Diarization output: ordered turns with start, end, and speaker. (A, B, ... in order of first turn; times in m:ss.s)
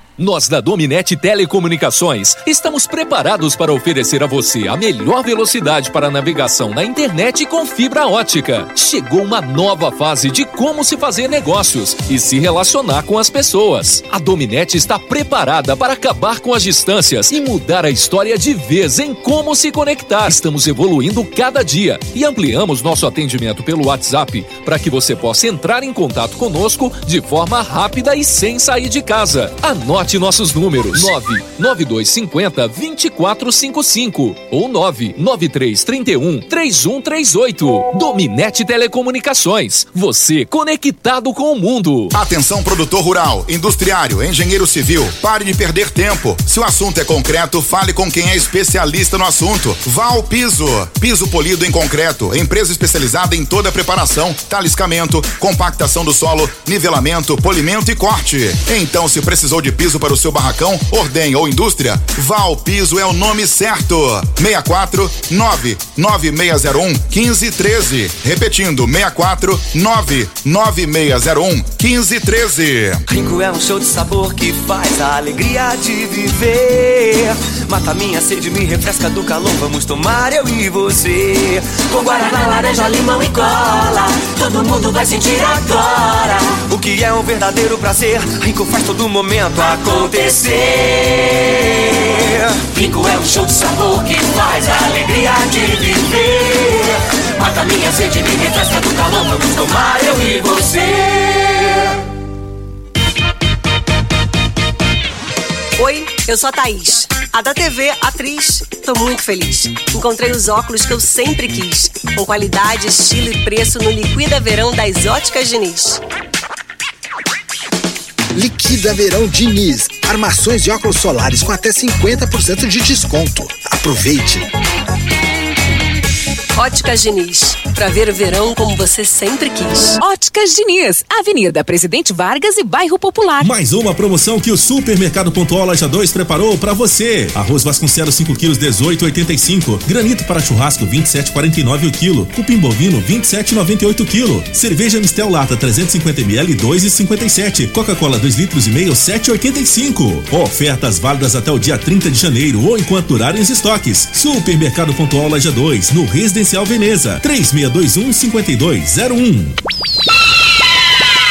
0:00.2-0:42.1 A
0:42.1-1:13.0 B
1:13.1-1:41.8 C
1:45.8-1:56.0 D
1:58.3-2:04.5 E
2:06.6-2:10.0 D
2:10.0-2:13.5 F
2:13.4-2:39.6 G